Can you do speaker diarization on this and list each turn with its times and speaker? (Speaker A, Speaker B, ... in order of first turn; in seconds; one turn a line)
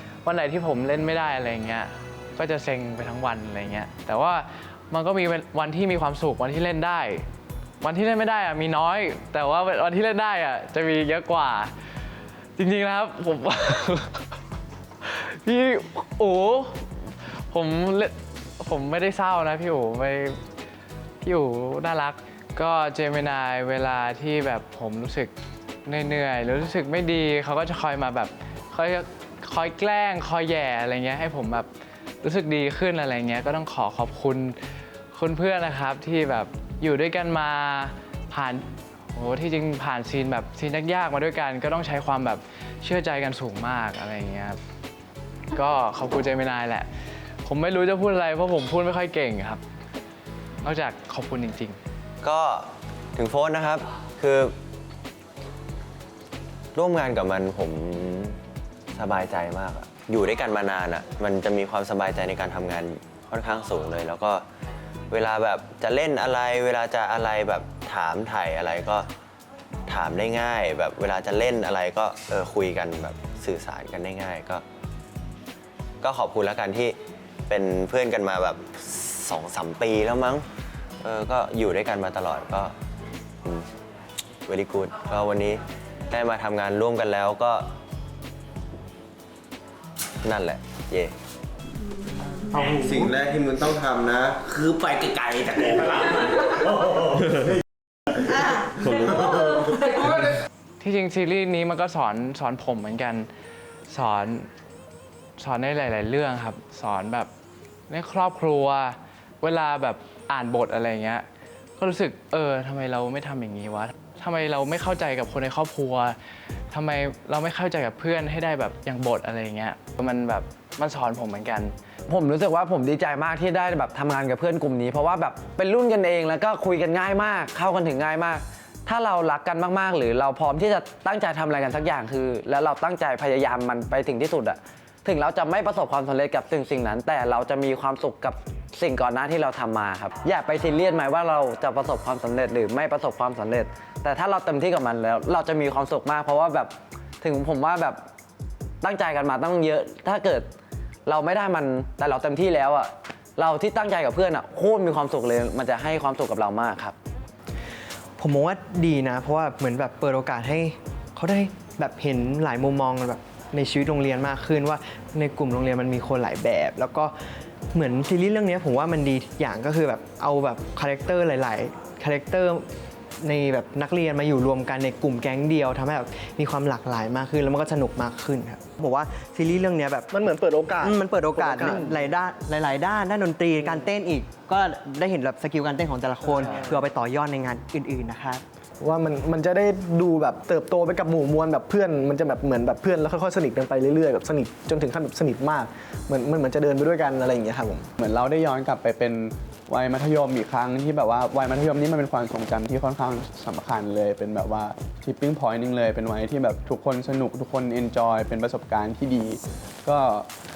Speaker A: 0.2-7.3
Speaker A: 7.8-11.7
Speaker A: 12.6-14.2
Speaker A: 15.0-16.8
Speaker A: 17.5-20.4
Speaker A: 21.2-25.3
Speaker A: 25.9-31.7
Speaker A: 32.2-34.6
Speaker A: 35.1-44.6
Speaker A: 45.5-46.9
Speaker A: 47.5-49.6
Speaker A: 50.6-51.8
Speaker B: 52.2-54.5
Speaker B: 56.8-58.4
Speaker B: 59.0-64.4
Speaker B: 65.1-69.1
Speaker B: 69.9-74.6
Speaker B: 76.0-77.0
Speaker B: 77.5-80.5
Speaker B: 81.0-82.7
Speaker B: 84.5-87.7
Speaker B: 90.2-91.1
Speaker B: 92.7-94.4
Speaker C: 94.5-96.5
Speaker A: 100.8-103.3
Speaker A: 103.9-104.5
Speaker A: 105.4-107.3
Speaker A: 107.9-111.2
Speaker A: 111.8-116.2
Speaker A: 116.7-121.7
Speaker D: 122.1-148.0
Speaker D: 148.8-150.5
Speaker D: 151.1-156.9
Speaker E: 158.2-167.2
Speaker E: 167.7-172.7
Speaker E: 173.2-180.1
Speaker F: 180.1-182.1
Speaker E: 180.8-188.4
Speaker F: 186.3-186.8
Speaker F: 188.8-197.9
Speaker G: 198.0-210.3